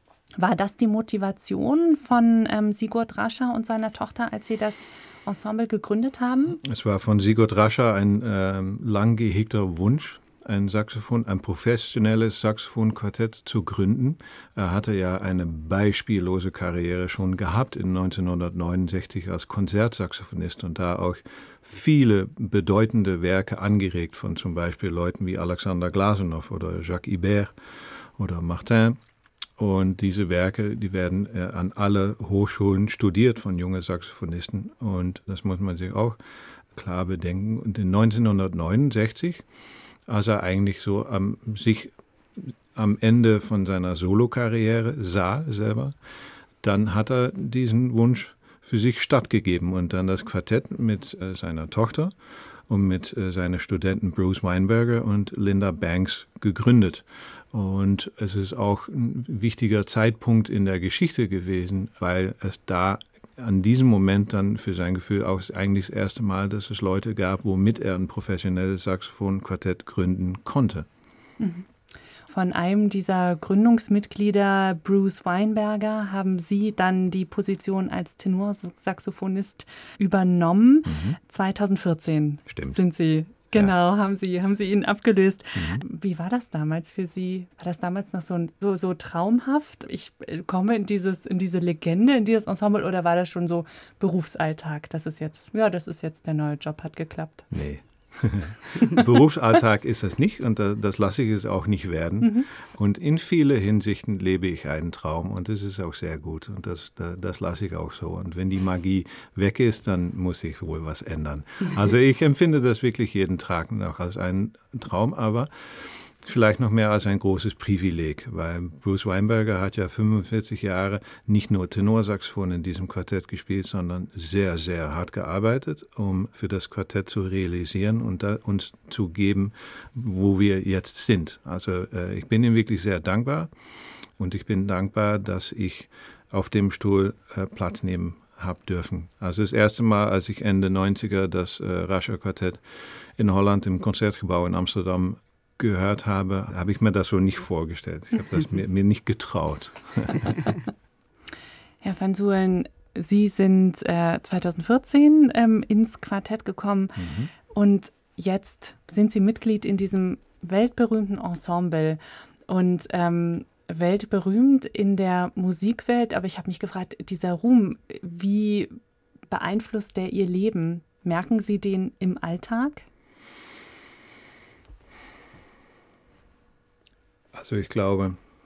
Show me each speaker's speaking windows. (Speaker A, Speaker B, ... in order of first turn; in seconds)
Speaker A: 0.4-6.6, 71.4-71.7, 72.3-97.5, 151.8-168.8, 169.3-172.9
Speaker B: 6.6-27.5, 28.2-29.0, 29.6-36.2, 36.7-39.4, 40.1-45.9, 46.6-52.1, 52.7-70.9, 80.8-81.2, 82.5-82.8, 85.5-85.8, 97.5-133.5, 134.2-142.6, 143.2-150.6, 157.0-157.3, 177.3-178.2